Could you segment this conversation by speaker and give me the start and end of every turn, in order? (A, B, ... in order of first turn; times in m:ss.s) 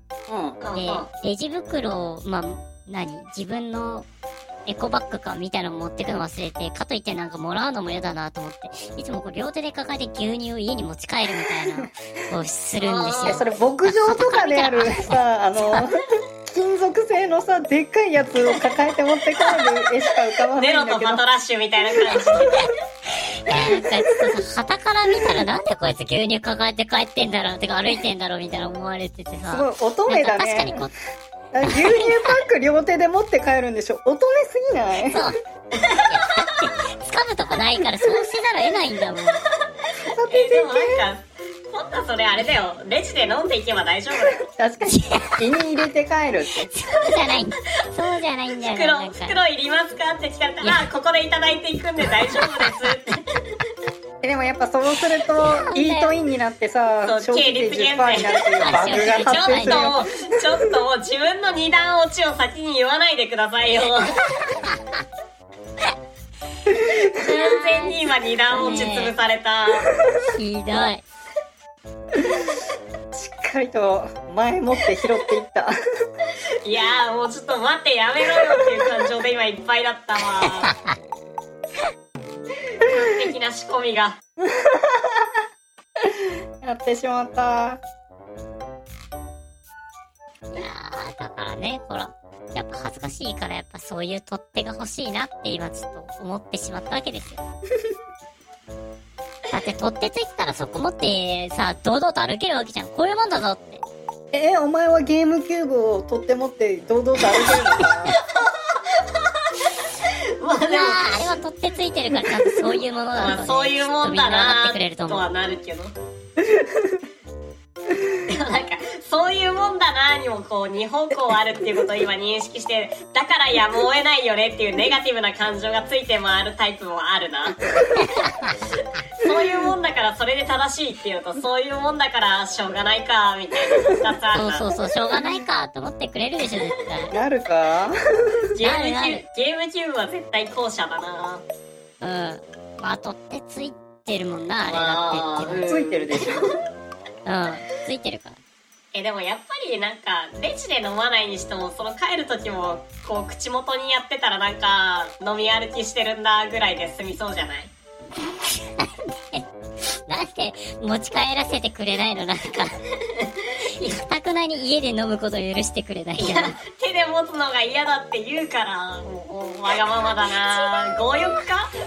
0:00.3-0:00.6 A
0:00.6-0:01.1 B
0:00.7-0:04.0 C
0:04.6-0:15.8 C
0:11.4-0:11.9 A
0:12.8-0:13.5 B
0:13.2-0:21.2 A
0:20.4-0:22.7 B
0:23.4-0:30.9 C
0:29.4-0:30.7 A
0:31.5-0:35.3 A
0:31.6-0:32.4 C
0:35.1-0:35.3 C
0:35.9-0:36.6 B
0:36.0-0:39.4 C
0:40.0-0:41.1 A
0:40.3-0:44.4 B
0:44.5-0:46.7 A
0:44.9-0:45.5 C
0:46.7-0:49.4 C
0:48.7-0:53.2 B
0:50.6-0:50.9 C
0:54.2-1:00.1 A
0:55.4-0:56.1 C
0:57.0-1:04.2 B
0:58.6-1:00.0 C
1:07.1-1:08.0 C
1:07.2-1:09.9 B
1:08.5-1:09.1 C
1:10.3-1:11.0 C
1:13.1-1:15.7 A
1:16.6-1:20.7 B
1:22.8-1:24.2 B
1:24.4-1:25.2 A
1:26.6-1:27.8 A
1:30.5-1:37.4 C
1:39.5-1:43.8 C
1:44.3-1:48.2 A
1:48.1-1:49.2 B
1:50.4-1:51.3 B
1:50.7-1:55.2 C
1:53.2-1:55.9 B
1:56.4-1:57.0 A
1:58.3-2:07.6 B
2:09.2-2:14.6 B
2:14.3-2:17.1 C
2:17.1-2:17.9 A
2:18.6-2:21.4 B
2:18.6-2:19.2 C
2:22.0-2:25.7 C
2:24.6-2:26.5 B
2:25.7-2:26.5 A
2:27.2-2:28.4 C
2:28.9-2:37.7 B
2:38.8-2:39.4 C
2:40.1-2:42.7 C
2:43.7-2:46.6 C
2:46.2-2:51.7 B